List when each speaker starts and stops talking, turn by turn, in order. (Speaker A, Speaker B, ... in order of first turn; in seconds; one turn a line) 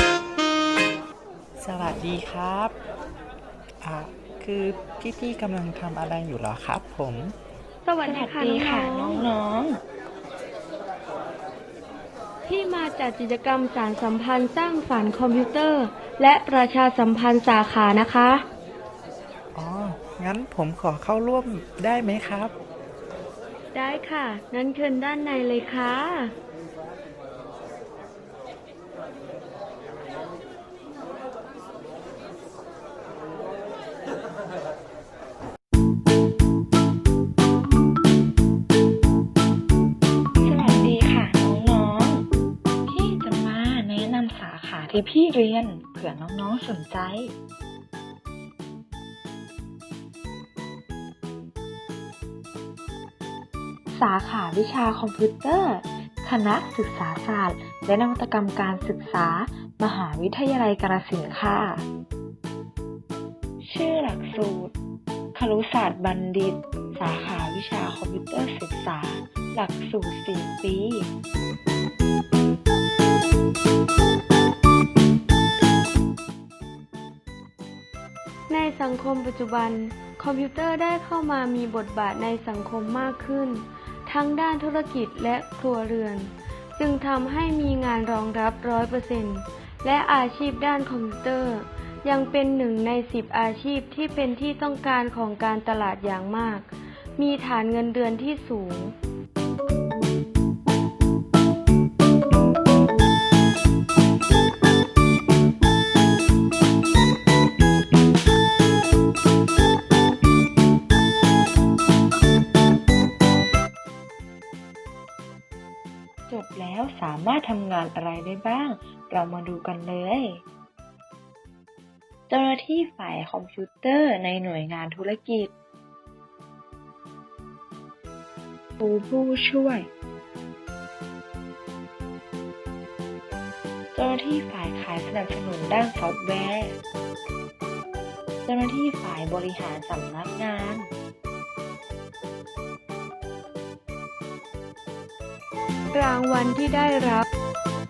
Speaker A: 1.6-2.7
Speaker A: 3.8-7.3
Speaker B: 7.8-9.3
Speaker C: 8.0-9.8
Speaker B: 12.4-18.4
Speaker A: 19.5-22.5
Speaker B: 23.7-26.3
Speaker C: 40.4-42.2
Speaker C: 42.8-47.3
Speaker C: 53.9-61.8
Speaker C: 63.6-64.7
Speaker C: 65.3-71.1
Speaker B: 78.5-98.9
Speaker C: 116.3-120.4
Speaker C: 122.3-125.5
Speaker C: 128.8-129.9
Speaker C: 133.9-136.8
Speaker C: 138.4-140.9
Speaker B: 145.9-147.2